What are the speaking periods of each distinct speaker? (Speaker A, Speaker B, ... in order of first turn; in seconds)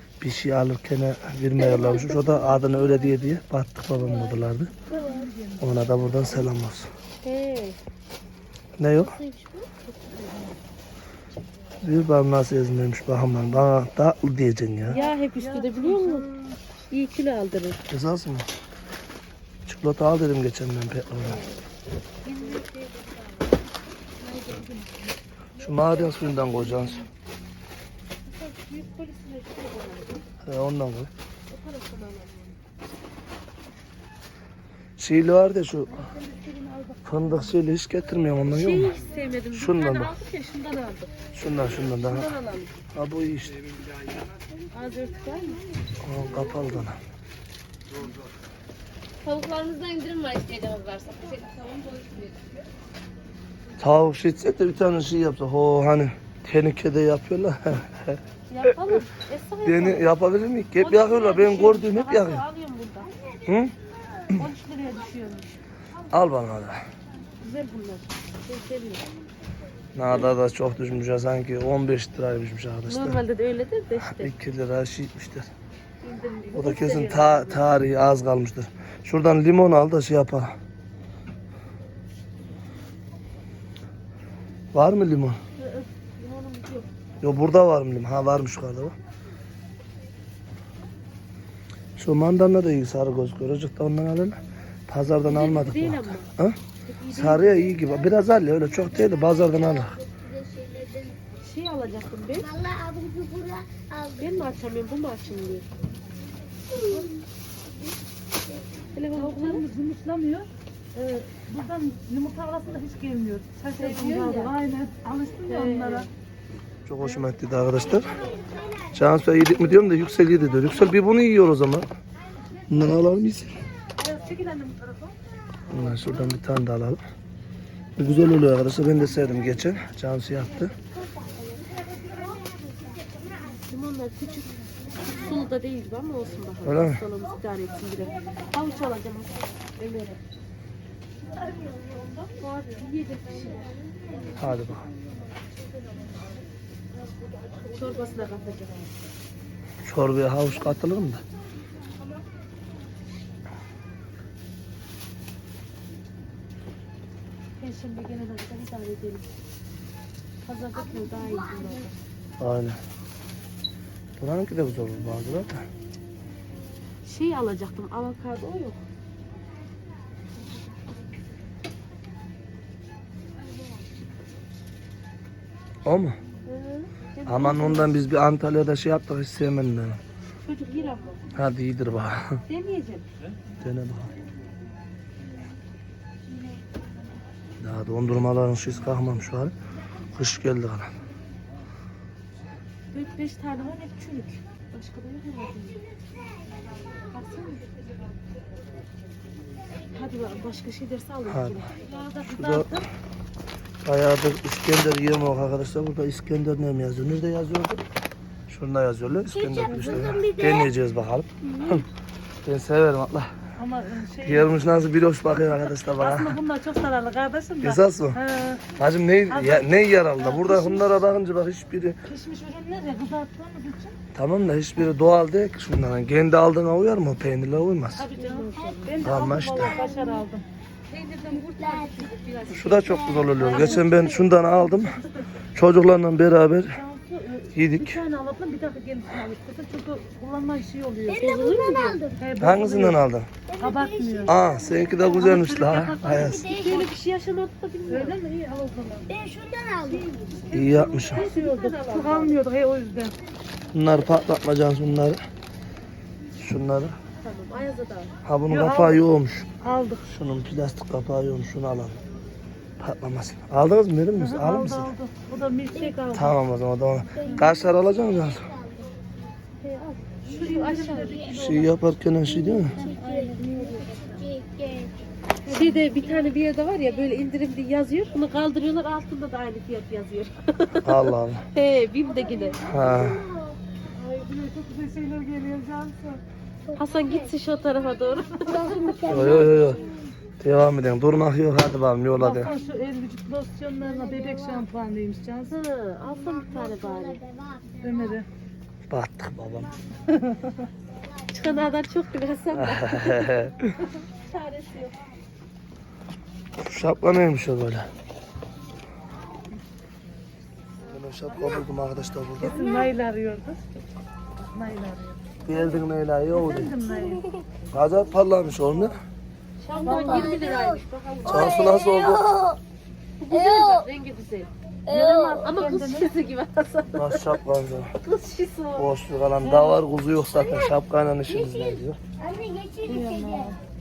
Speaker A: 0.2-4.7, 5.6-6.9, 8.8-9.1, 11.8-15.0, 17.9-18.5, 19.7-21.4, 25.6-27.0, 30.4-31.1, 35.0-35.9, 37.0-39.0, 39.5-40.1, 41.3-42.3, 42.9-43.6, 46.0-47.0, 53.8-59.0, 59.6-62.4, 63.5-63.7, 66.1-66.8, 70.0-73.2, 74.0-75.5, 76.5-80.5, 84.7-85.4, 87.2-89.0, 92.0-96.6, 97.1-100.0, 116.9-118.1, 118.9-121.9, 122.7-123.6, 125.7-127.0, 128.0-130.7, 136.6-137.0, 144.3-144.9, 149.8-151.2, 162.4-162.8, 164.2-165.7, 175.8-176.2, 177.3-180.0, 181.3-182.4, 183.6-184.1, 187.6-189.5, 190.1-190.9, 201.3-201.7, 202.3-202.7, 203.8-207.8, 208.5-211.9, 212.4-213.3, 214.2-216.4, 217.6-218.2, 218.8-222.0, 224.2-228.1, 229.0-229.8, 232.5-235.0, 235.6-236.8, 237.5-238.0, 242.4-243.3, 244.3-246.4, 250.5-251.2, 253.7-255.2, 256.4-257.0, 258.2-259.5, 260.1-262.0, 262.8-264.9, 266.1-268.4, 271.3-272.8, 280.8-281.4, 282.6-283.2, 289.1-289.8, 290.4-292.5, 298.9-299.7, 302.5-303.7, 306.6-307.9, 310.8-312.6, 315.4-316.7, 317.7-319.0, 321.2-322.2, 327.0-327.9, 328.8-332.0
Speaker B: 1.6-2.2, 7.2-7.8, 9.0-9.7, 14.9-16.2, 16.9-17.8, 21.2-21.6, 22.2-23.6, 25.6-26.6, 28.3-30.2, 31.5-32.6, 38.5-41.1, 42.0-42.7, 44.7-45.6, 46.2-46.9, 49.2-52.5, 58.5-60.1, 60.8-63.1, 64.3-65.6, 67.4-69.1, 72.9-74.3, 76.0-77.7, 85.6-86.9, 95.2-96.3, 96.8-98.1, 101.4-102.5, 104.2-105.7, 106.7-107.1, 109.0-109.6, 113.8-114.5, 115.5-116.1, 133.6-140.2, 142.3-144.5, 147.1-148.9, 157.6-159.3, 160.4-161.9, 167.1-168.8, 176.4-177.9, 180.4-181.2, 182.5-183.1, 192.9-195.8, 197.1-197.7, 199.9-201.8, 228.1-229.1, 230.9-234.3, 241.2-242.0, 246.5-248.2, 251.1-252.4, 257.2-258.1, 270.3-271.3, 275.5-282.6, 286.8-289.8, 295.4-297.2, 301.3-303.5, 304.0-305.0, 319.6-321.9, 323.2-324.5, 325.4-327.3, 328.0-328.9
Speaker C: 4.9-6.5, 9.9-10.6, 14.9-16.6, 22.3-22.6, 24.2-25.1, 25.9-27.0, 35.9-37.6, 76.5-77.4, 109.2-116.1, 124.0-125.2, 201.8-202.9, 209.6-210.2, 213.6-214.7, 215.8-218.7, 219.3-221.0, 222.1-224.0, 228.0-230.4, 233.4-234.2, 236.7-241.3, 242.2-243.0, 243.6-244.4, 245.0-246.8, 247.9-249.1, 249.9-253.2, 258.5-259.1, 259.6-260.0, 264.1-266.4, 267.2-267.5, 269.6-271.8, 272.7-274.1, 275.5-275.9, 283.9-286.2, 292.2-295.6, 297.8-298.3, 300.1-300.6, 312.4-313.6, 314.4-315.2, 316.3-317.2, 319.9-320.4, 324.9-326.1, 329.4-329.8, 332.9-333.6
Speaker D: 63.0-64.4, 98.7-101.2, 102.3-104.6, 106.7-107.2, 117.8-119.8, 130.8-133.1, 135.0-135.3, 143.5-144.6, 160.8-161.9, 196.2-196.6, 209.3-210.7, 211.4-211.8, 228.6-230.3, 231.3-232.1, 232.7-233.8, 241.1-242.2, 243.5-245.5, 246.0-246.9, 249.1-250.2, 265.7-266.1, 267.1-269.3, 270.4-271.6, 272.2-274.9, 275.6-276.4, 282.1-283.6, 286.6-287.3, 288.4-290.2, 292.4-292.8, 293.8-294.7, 296.1-298.2, 299.6-300.0, 300.8-301.7, 312.6-312.9, 316.8-317.4, 319.7-322.6, 323.3-323.9, 324.9-325.6, 330.3-330.7, 331.3-333.6